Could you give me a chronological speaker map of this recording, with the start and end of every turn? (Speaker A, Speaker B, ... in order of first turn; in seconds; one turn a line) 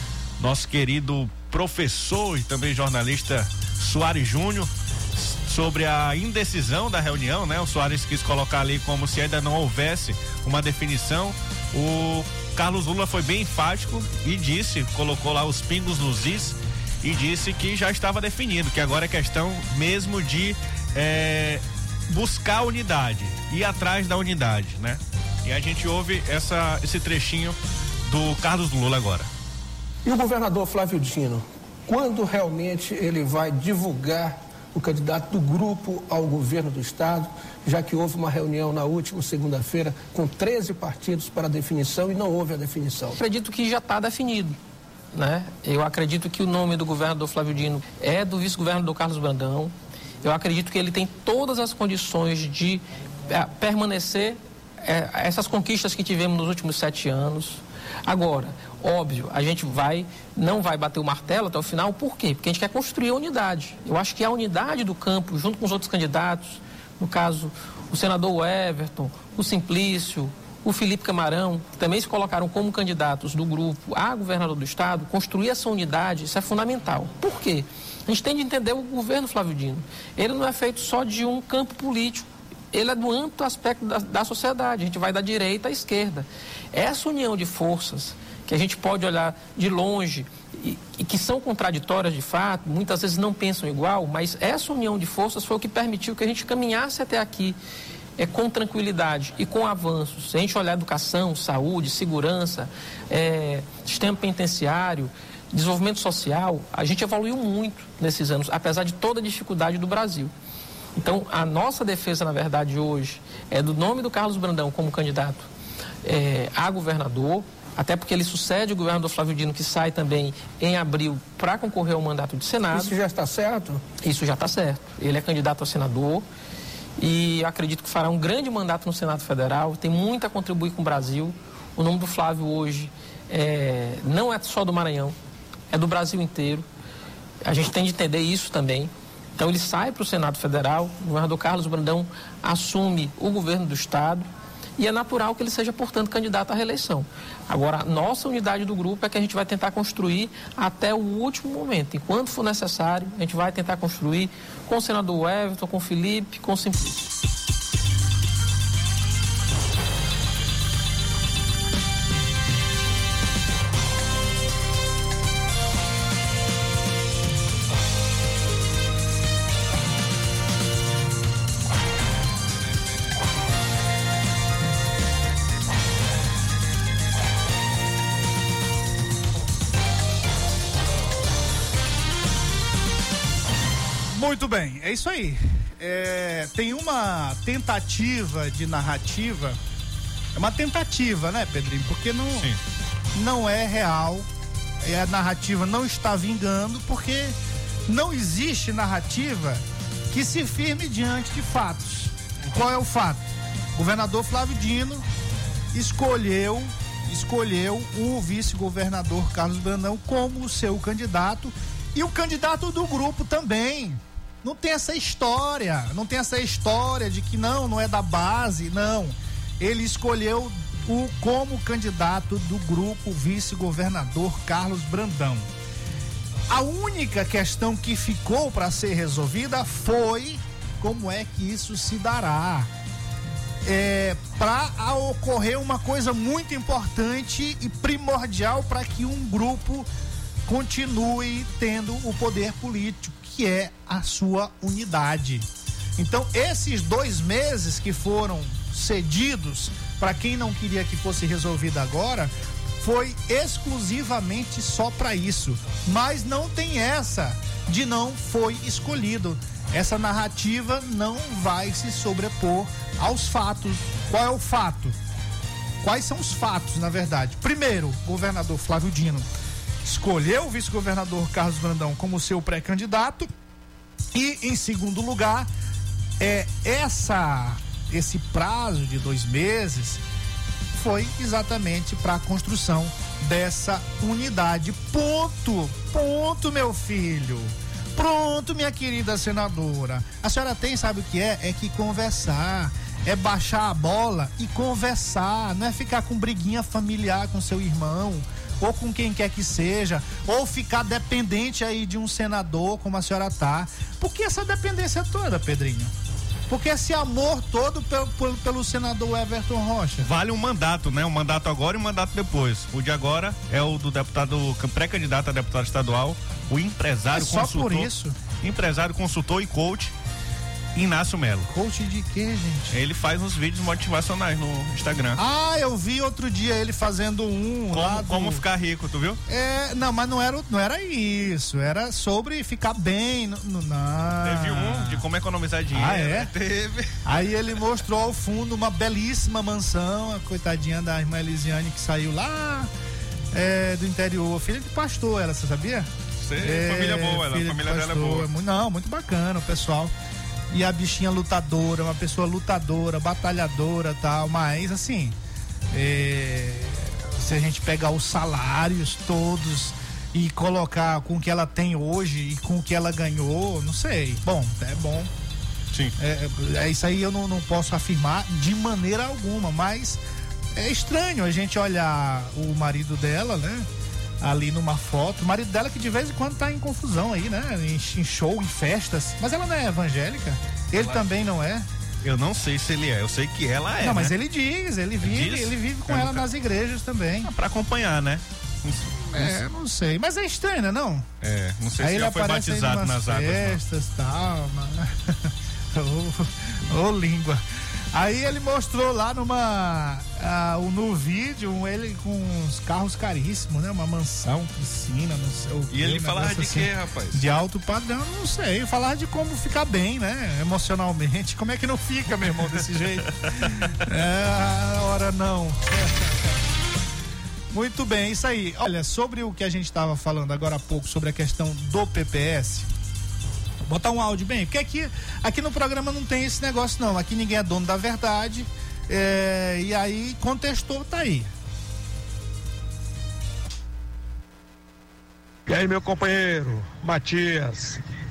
Speaker A: 0.4-29.3
Speaker B: 30.1-43.2
Speaker C: 43.2-44.6
Speaker C: 45.1-97.6
Speaker C: 98.2-110.3
Speaker C: 111.0-115.5
Speaker C: 116.0-123.0
Speaker B: 122.7-123.8
Speaker C: 124.0-126.3
Speaker C: 127.0-135.2
Speaker C: 135.7-136.7
Speaker C: 137.4-157.0
Speaker D: 184.1-189.6
Speaker D: 190.3-192.5
Speaker D: 193.2-194.3
Speaker D: 194.8-205.1
Speaker D: 205.7-225.5
Speaker D: 226.5-232.7
Speaker D: 233.6-239.9
Speaker D: 240.4-265.0
Speaker D: 265.8-269.3
Speaker D: 269.8-273.3
Speaker D: 274.1-275.5
Speaker D: 276.2-280.0
Speaker D: 280.7-305.9
Speaker D: 306.5-310.1
Speaker A: 310.0-317.9
Speaker D: 317.1-318.2
Speaker A: 318.4-319.9
Speaker A: 320.8-321.5
Speaker D: 321.5-322.8
Speaker A: 322.7-325.2
Speaker D: 325.2-328.4
Speaker A: 327.7-329.2
Speaker D: 329.3-335.1
Speaker A: 334.2-337.3
Speaker D: 335.7-336.3
Speaker D: 337.1-342.7
Speaker D: 343.3-349.9
Speaker A: 346.2-348.3
Speaker D: 350.5-355.2
Speaker D: 355.7-365.1
Speaker D: 366.0-370.0
Speaker D: 370.5-373.7
Speaker D: 374.2-381.7
Speaker A: 380.8-381.1
Speaker A: 382.0-384.1
Speaker D: 383.8-387.3
Speaker A: 385.0-386.2
Speaker A: 387.2-389.4
Speaker D: 389.1-391.1
Speaker A: 391.2-393.6
Speaker D: 391.8-397.4
Speaker D: 397.9-416.3
Speaker A: 405.7-407.3
Speaker A: 413.2-413.7
Speaker D: 417.5-422.7
Speaker D: 423.6-431.3
Speaker E: 435.5-437.8